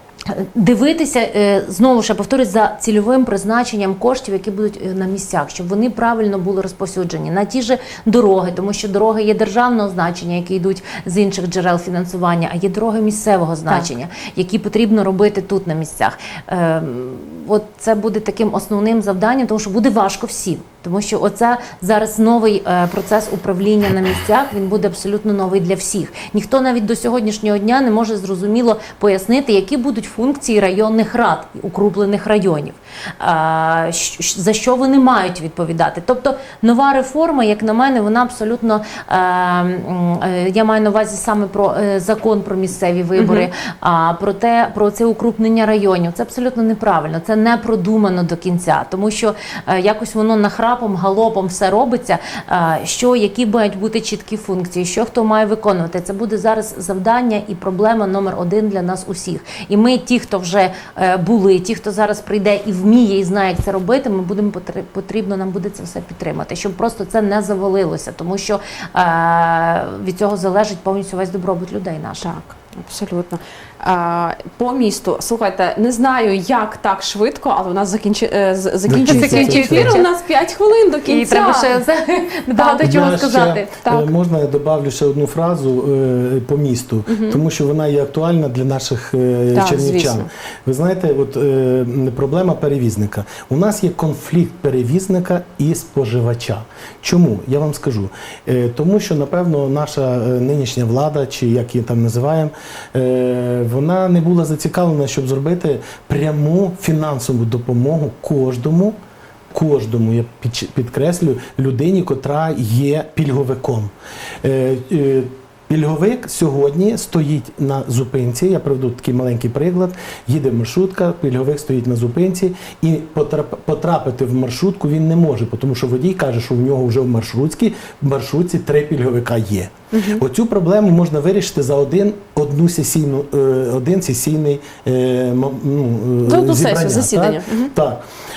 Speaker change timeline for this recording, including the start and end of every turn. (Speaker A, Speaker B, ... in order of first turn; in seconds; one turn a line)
Speaker A: 0.2-72.3
Speaker B: 43.1-43.5
Speaker B: 72.2-81.8
Speaker C: 78.9-80.0
Speaker A: 79.0-80.1
Speaker A: 81.0-83.7
Speaker B: 82.5-82.8
Speaker C: 82.8-109.0
Speaker B: 83.8-84.1
Speaker B: 87.1-87.4
Speaker B: 89.5-90.3
Speaker C: 109.5-138.0
Speaker B: 129.9-130.2
Speaker B: 136.2-137.7